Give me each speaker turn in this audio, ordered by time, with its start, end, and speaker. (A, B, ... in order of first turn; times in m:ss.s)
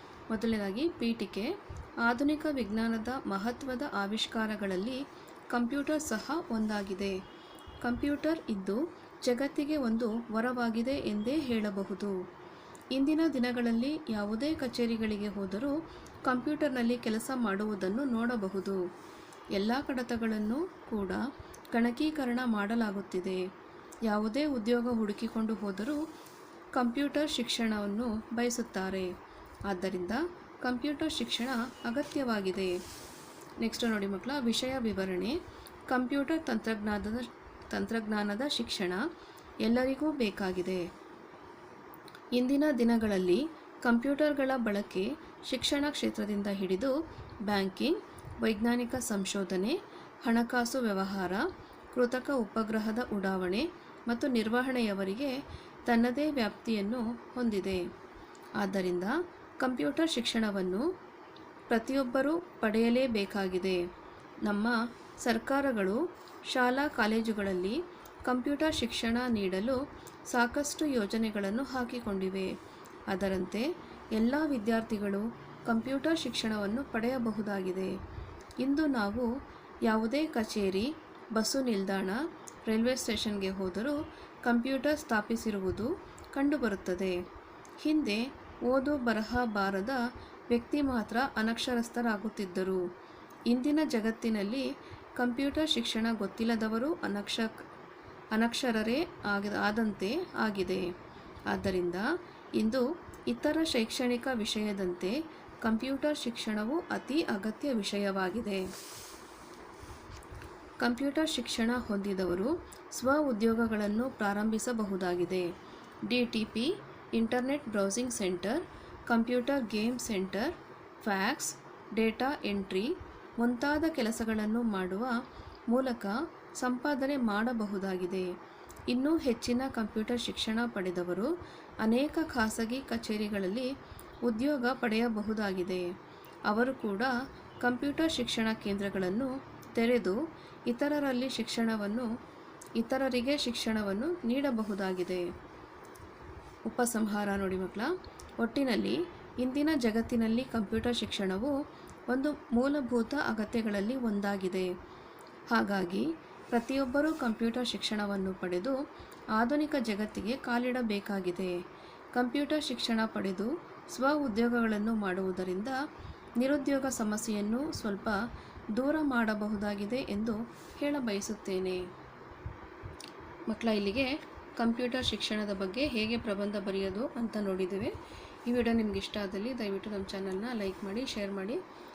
0:00.3-0:07.2 A
0:07.8-0:12.2 A
0:12.9-0:18.8 A
0:19.5-0:23.4 A
0:24.1-0:26.0 A
0:26.7-0:29.1 A
0:29.7-0:32.8 A
0:33.6-0:35.4 A
0:35.9-0:39.0 A
0:39.6-0:40.9 A
0:42.3-0:46.9 A
0:47.5-0:55.4 A
0:55.9-0:57.8 A
0:58.6-1:00.9 A
1:01.7-1:03.8 A
1:04.4-1:12.5 A
1:13.1-1:17.9 A
1:18.6-1:19.3 A
1:19.9-1:27.2 A
1:27.8-1:32.8 A
1:33.5-1:37.6 A
1:38.3-1:40.9 A
1:41.5-1:42.1 A
1:42.6-1:48.7 A
1:50.8-1:55.5 A
1:56.1-2:05.2 A
2:05.7-2:08.3 A
2:08.9-2:11.3 A
2:11.8-2:13.7 A
2:14.2-2:15.9 A
2:16.5-2:20.2 A
2:20.7-2:22.1 A
2:22.8-2:25.3 A
2:26.7-2:31.6 A
2:32.1-2:34.7 A
2:35.5-2:38.8 A
2:39.4-2:41.6 A
2:42.1-2:45.8 A
2:46.4-2:48.2 A
2:48.8-2:51.8 A
2:53.5-2:58.0 A
2:58.5-3:01.6 A